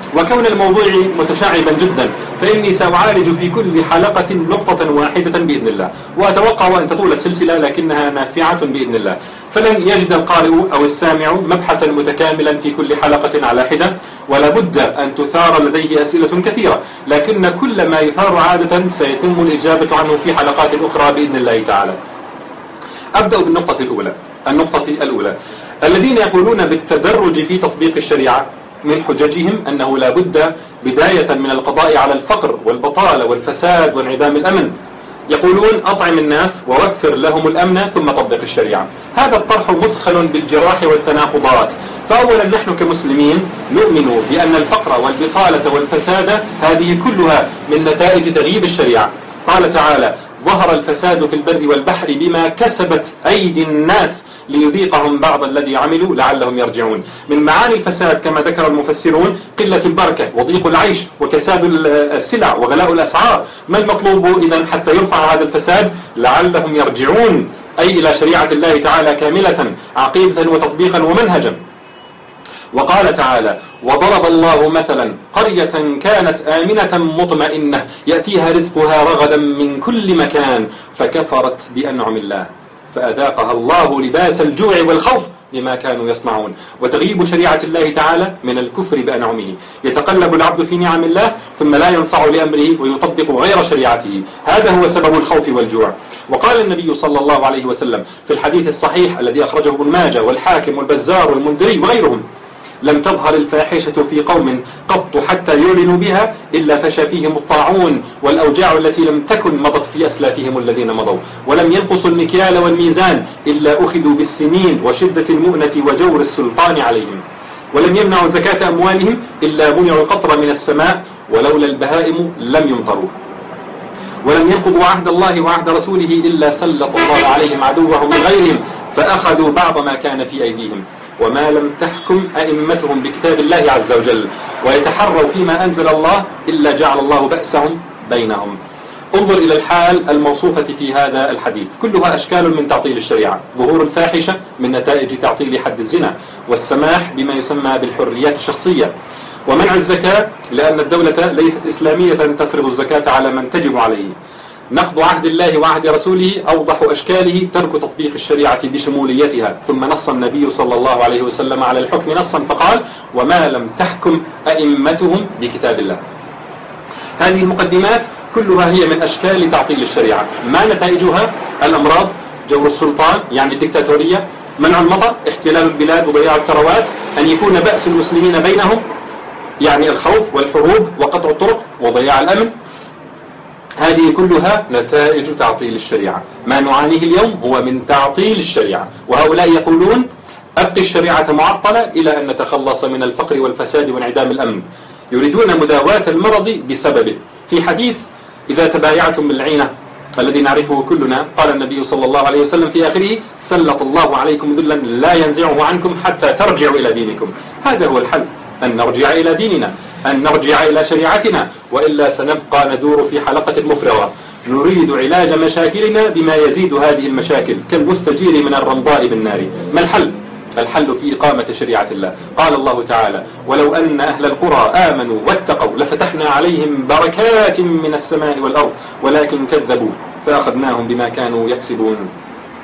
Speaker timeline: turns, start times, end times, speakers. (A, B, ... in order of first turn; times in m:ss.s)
0:00.2-0:22.0 A
0:23.2-0:34.7 A
0:35.3-1:11.6 A
1:12.7-1:42.2 A
1:42.8-2:03.1 A
2:04.2-2:18.6 A
2:19.1-2:28.9 A
2:29.5-2:34.2 A
2:34.7-2:46.0 A
2:47.2-2:58.8 A
2:59.6-3:02.5 A
3:03.8-3:10.1 A
3:10.6-3:52.1 A